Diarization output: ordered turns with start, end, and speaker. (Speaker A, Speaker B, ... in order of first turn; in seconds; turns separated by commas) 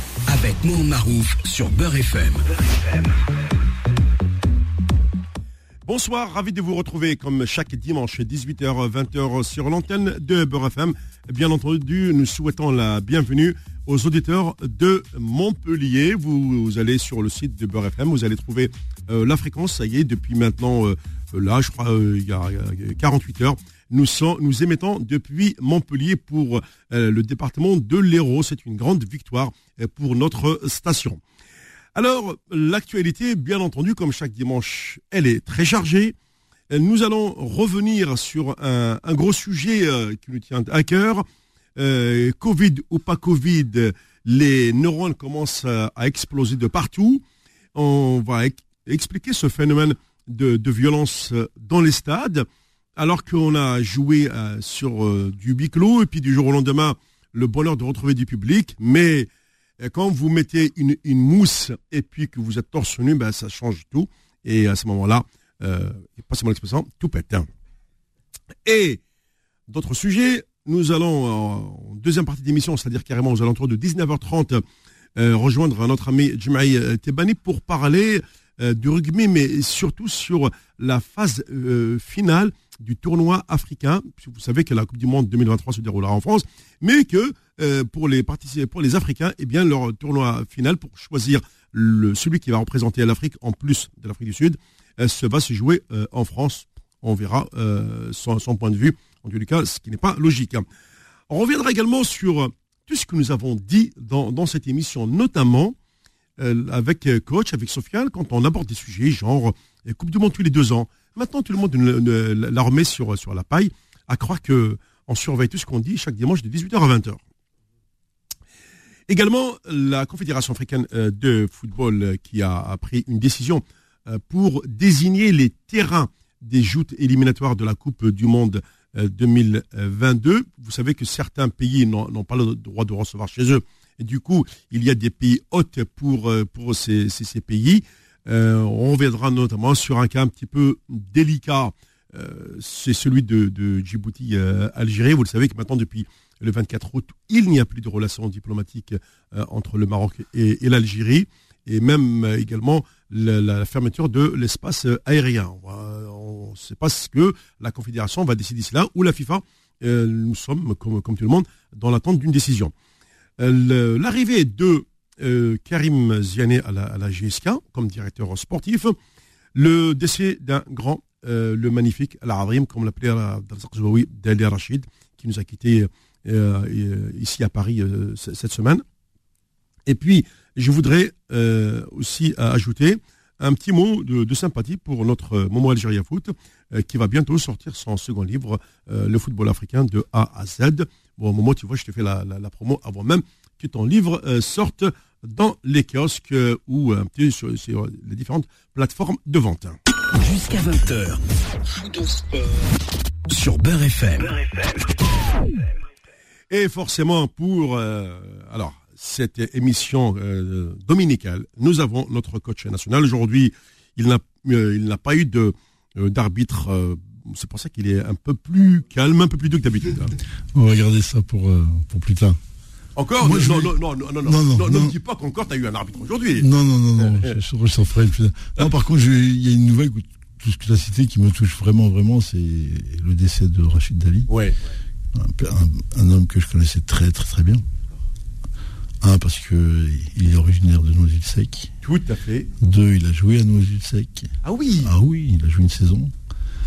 Speaker A: 0.3-3.0, Speaker B: 5.9-31.2, Speaker B: 31.9-36.2, Speaker B: 36.7-41.3, Speaker B: 41.8-47.2, Speaker B: 47.8-59.3, Speaker B: 59.8-67.5, Speaker B: 68.7-69.0, Speaker B: 69.7-74.6, Speaker B: 75.2-100.7, Speaker B: 101.3-105.8, Speaker B: 106.4-117.2, Speaker B: 119.1-162.7, Speaker B: 163.4-169.0, Speaker B: 169.6-178.8, Speaker B: 179.9-199.8, Speaker A: 200.1-202.7, Speaker A: 203.3-205.0, Speaker B: 206.5-220.2, Speaker C: 220.5-222.4, Speaker B: 223.0-227.4, Speaker C: 223.2-224.9, Speaker C: 226.4-234.3, Speaker B: 234.3-234.6, Speaker C: 235.1-237.6, Speaker C: 239.0-241.7, Speaker B: 241.8-242.5, Speaker C: 242.6-244.3, Speaker B: 244.4-244.9, Speaker C: 244.8-246.1